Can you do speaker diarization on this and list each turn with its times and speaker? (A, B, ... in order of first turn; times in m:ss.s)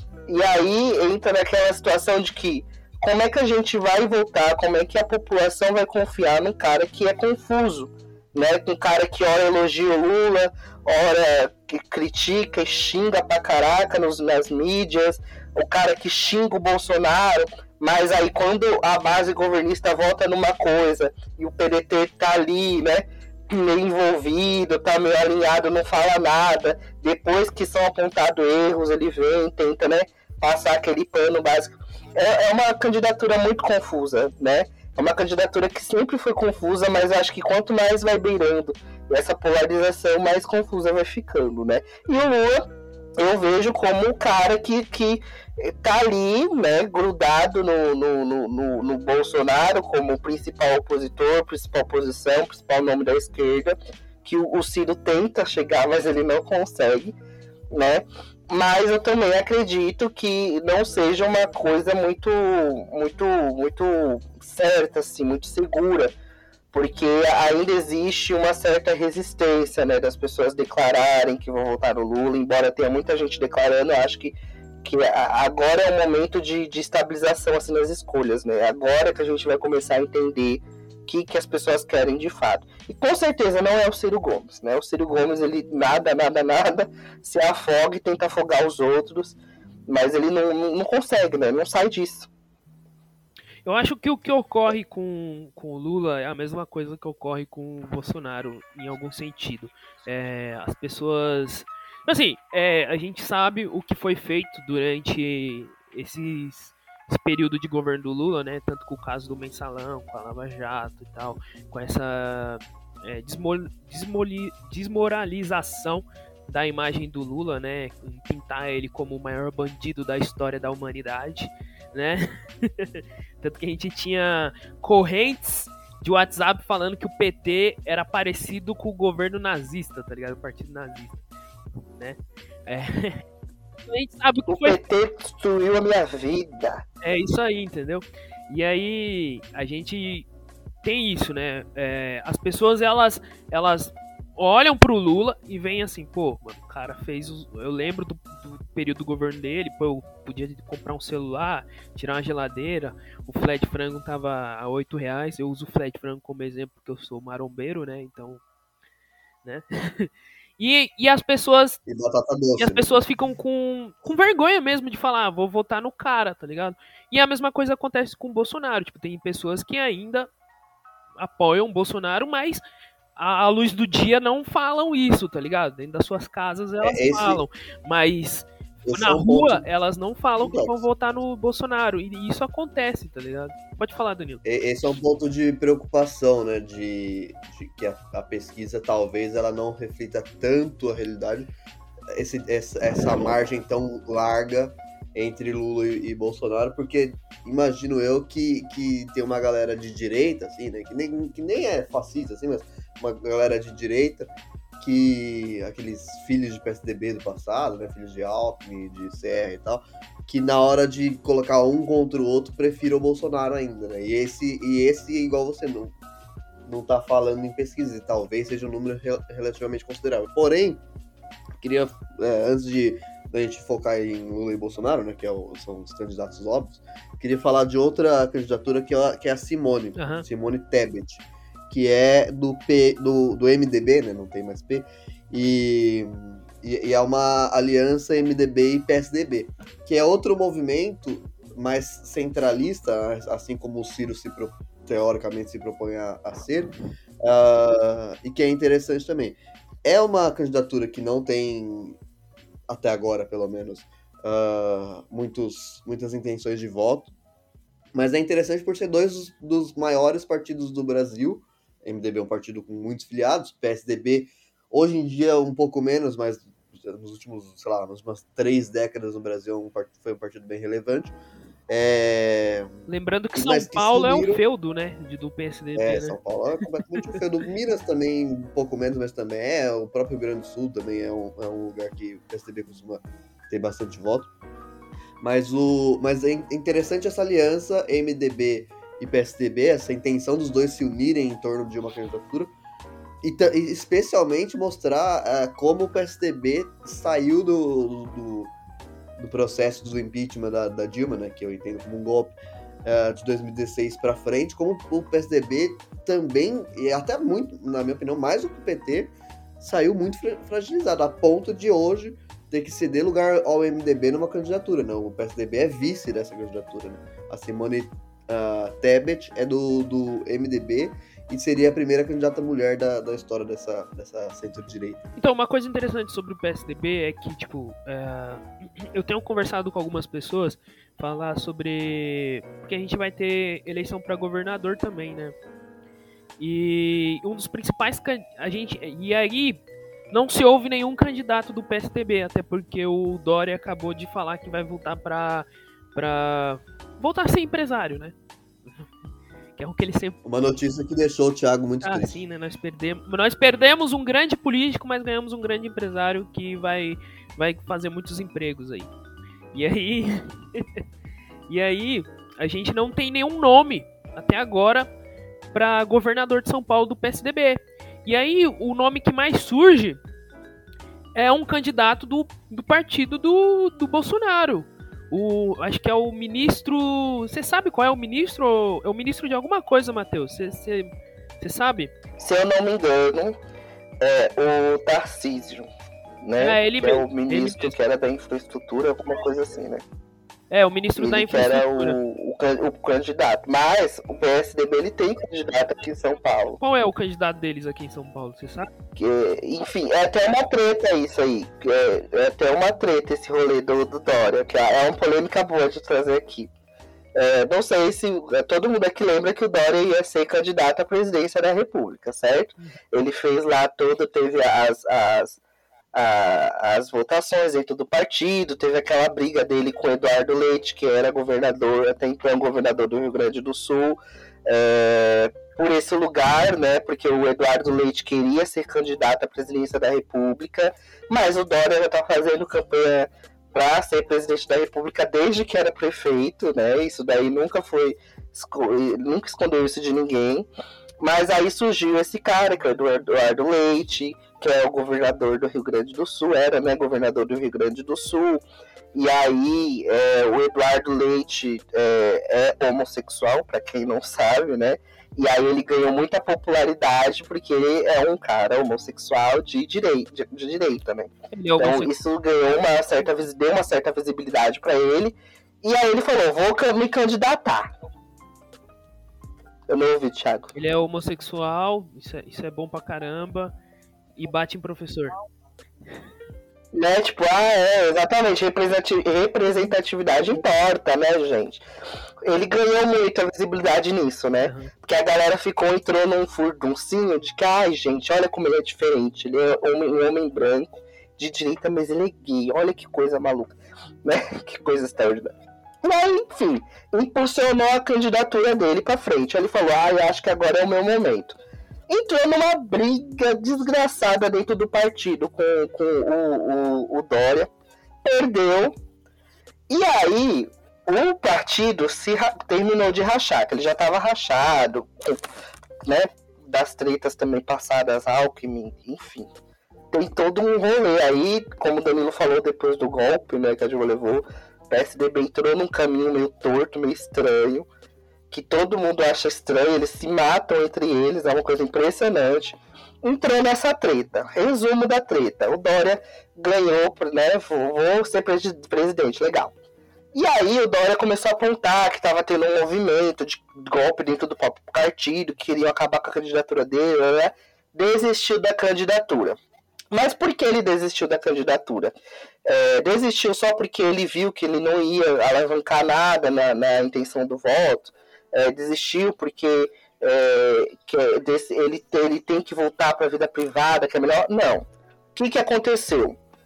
0:00.3-0:57.2 A
0:57.7-1:06.1 A
1:06.7-1:29.4 A
1:29.9-1:32.3 A
1:33.6-2:11.2 B
2:11.9-2:13.2 B
2:13.9-2:14.8 B
2:14.5-2:16.8 A
2:17.0-2:20.3 B
2:20.8-2:38.4 B
2:39.4-2:41.8 B
2:41.9-2:43.0 C
2:42.6-2:50.3 B
2:51.2-2:52.6 B
2:53.2-3:04.4 B
2:56.8-2:57.4 C
2:58.8-2:59.6 C
3:00.4-3:00.9 C
3:04.4-3:11.5 C
3:12.1-3:35.9 C
3:36.6-3:40.8 C
3:41.6-4:12.0 C
3:50.0-3:50.2 B
4:12.7-4:17.1 C
4:17.9-4:31.1 C
4:31.7-4:34.4 C
4:32.9-4:36.2 B
4:35.8-4:44.3 C
4:45.2-4:52.5 C
4:53.2-4:58.5 C
4:59.2-5:25.0 C
5:25.2-5:35.4 B
5:36.4-5:39.6 B
5:40.1-5:48.1 B
5:49.6-5:50.2 B
5:50.2-5:52.2 C
5:51.8-5:58.9 B
5:59.5-6:00.8 B
6:01.5-6:04.9 B
6:05.5-6:10.0 B
6:11.1-6:20.9 B
6:21.4-6:21.9 B
6:22.2-6:23.4 A
6:24.0-6:25.7 A
6:26.2-6:29.8 A
6:26.4-6:27.7 B
6:30.5-6:32.0 B
6:31.0-6:36.6 A
6:36.6-6:38.7 B
6:39.0-6:46.5 A
6:47.1-6:55.4 A
6:55.9-7:20.5 A
7:21.0-7:28.4 A
7:28.9-7:47.7 A
7:41.3-7:41.9 B
7:49.7-7:50.5 A
7:50.6-7:53.5 B
7:54.2-7:55.1 B
7:56.7-8:01.6 A
8:02.2-8:27.5 A
8:04.4-8:04.7 B
8:28.0-8:28.8 A
8:29.7-8:35.2 A
8:35.9-8:39.3 A
8:39.9-8:47.7 A
8:48.3-8:59.5 A
9:00.1-9:09.4 A
9:09.9-9:11.9 A
9:12.4-9:26.2 A